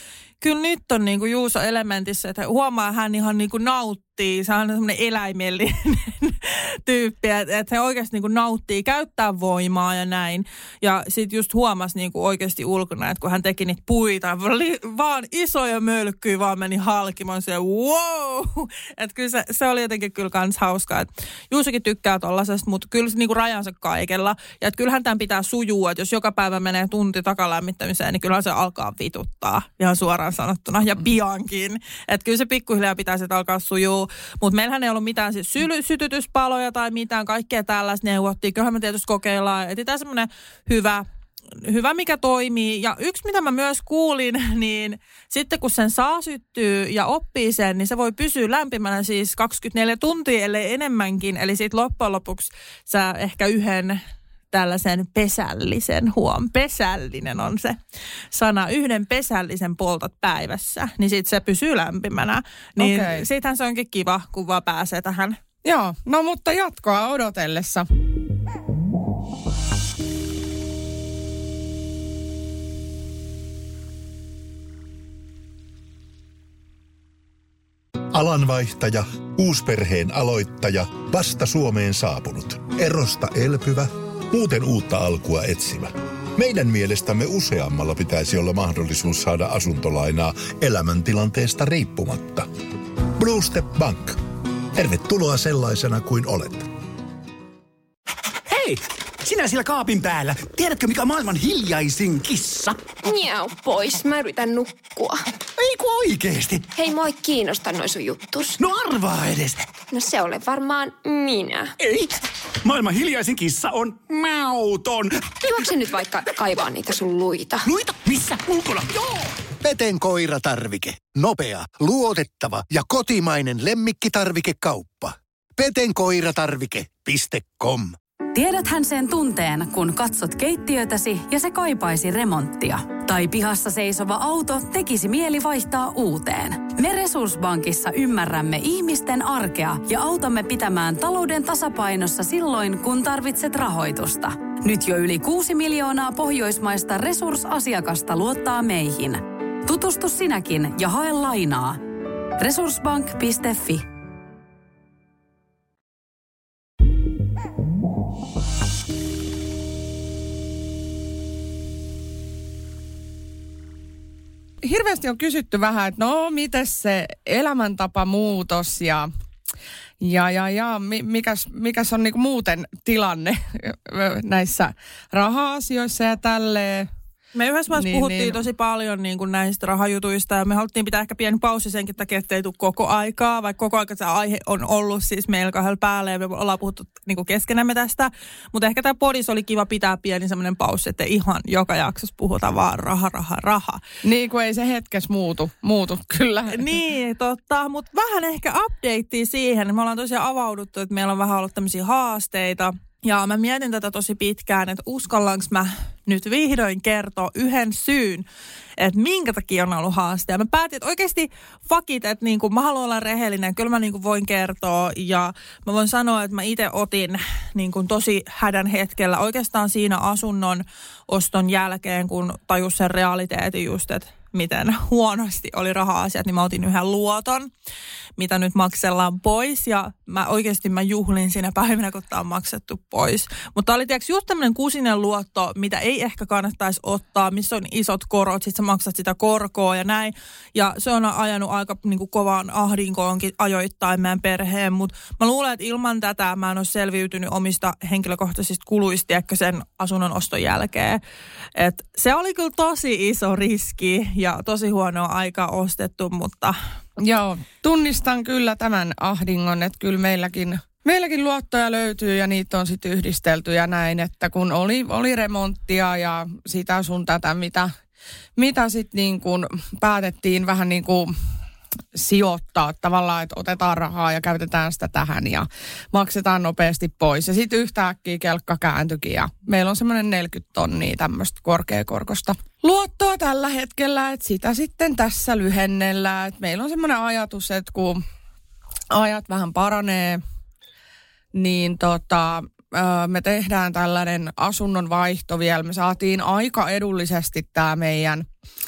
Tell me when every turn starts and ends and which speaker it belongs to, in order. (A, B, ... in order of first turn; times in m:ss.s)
0:00.4-0:41.0 A
0:41.6-0:54.0 A
0:54.5-0:57.8 A
0:58.3-1:05.4 A
1:02.8-1:03.2 B
1:05.6-1:07.9 B
1:18.1-1:32.5 C
1:33.1-1:34.2 C
1:34.7-1:36.7 C
1:38.5-1:42.9 D
1:43.0-1:45.2 E
1:45.6-1:46.7 D
1:46.7-1:48.6 E
1:48.6-1:49.6 D
1:49.9-1:51.7 E
1:51.8-1:55.3 D
1:55.4-1:57.6 E
1:57.6-1:59.1 D
1:59.6-2:07.9 F
2:08.3-2:31.8 G
2:32.4-2:33.8 G
2:44.6-2:49.1 B
2:50.0-2:56.9 B
2:57.3-3:13.8 A
2:57.7-2:58.4 B
3:14.0-3:16.8 B
3:16.5-3:28.2 A
3:28.8-3:47.5 A
3:48.2-4:11.0 A
4:11.6-4:16.6 A
4:17.0-4:27.7 B
4:28.4-4:31.1 B
4:31.9-4:48.0 B
4:48.9-4:50.2 B
4:51.3-4:58.2 B